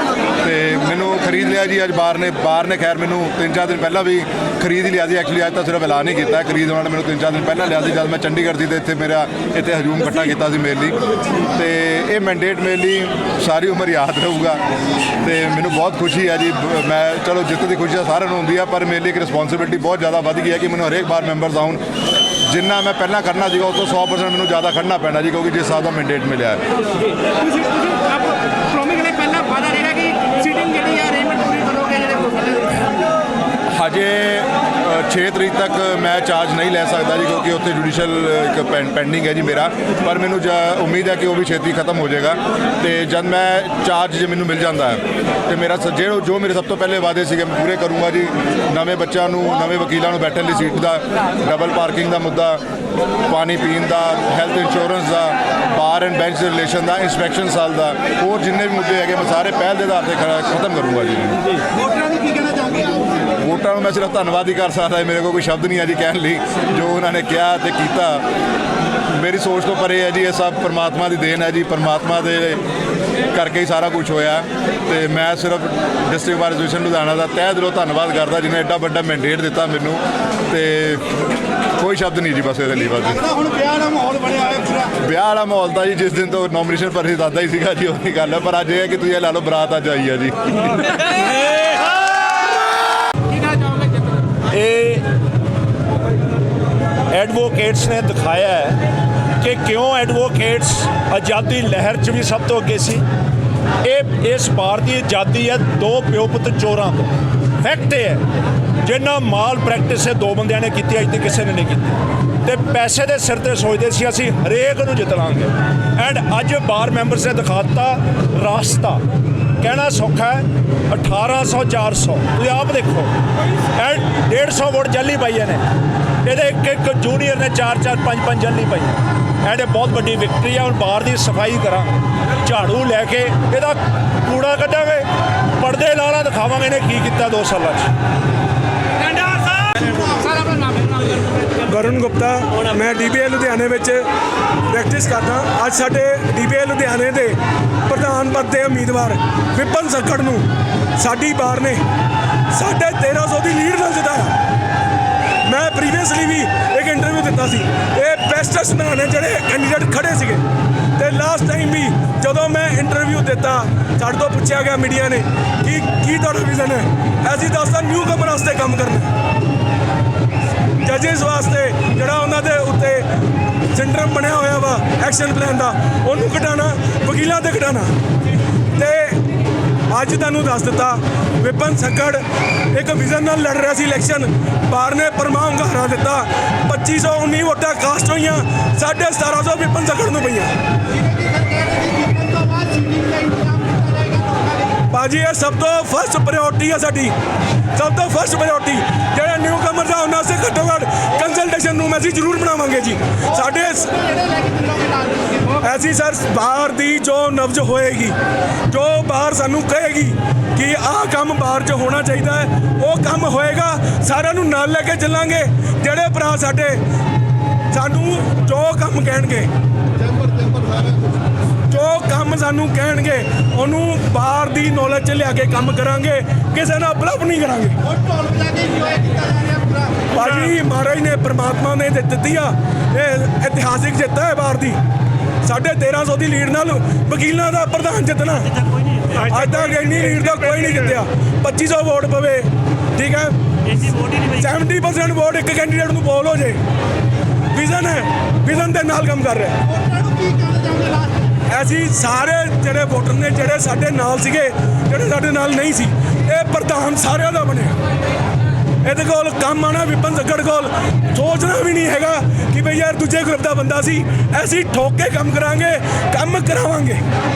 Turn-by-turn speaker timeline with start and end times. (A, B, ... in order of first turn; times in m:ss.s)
0:00.4-0:11.0 A
0:11.5-0:14.6 A
0:15.2-0:21.8 A
0:22.5-0:26.6 A
0:27.6-0:32.8 B
0:33.8-0:52.6 A
0:53.2-1:01.6 A
1:03.4-1:08.2 A
1:09.1-1:12.6 A
1:13.3-1:21.1 A
1:21.8-1:23.5 A
1:23.7-1:24.6 C
1:24.7-1:31.0 A
1:34.5-1:35.0 C
1:37.1-1:38.8 C
1:39.4-1:43.0 C
1:43.8-1:48.2 C
1:48.8-1:59.0 C
1:59.6-2:03.1 C
2:03.7-2:05.7 C
2:06.2-2:17.9 C
2:21.6-2:24.1 D
2:24.7-2:31.8 D
2:32.5-2:34.4 D
2:35.5-2:40.4 D
2:41.0-2:49.1 D
2:50.8-2:53.1 D
2:53.7-2:57.9 D
2:58.7-2:59.3 D
2:59.9-3:10.6 D
3:11.2-3:14.7 B
3:14.8-3:17.1 D
3:17.8-3:24.3 D
3:24.2-3:25.5 B
3:25.5-3:28.2 D
3:28.7-3:36.8 D
3:37.7-3:39.5 D
3:40.4-3:41.0 B
3:41.7-3:47.8 D
3:47.9-3:50.1 B
3:50.1-3:54.8 D
3:55.4-4:06.6 D
4:07.5-4:09.6 D
4:09.8-4:11.2 B
4:11.5-4:17.8 D
4:18.8-4:27.0 D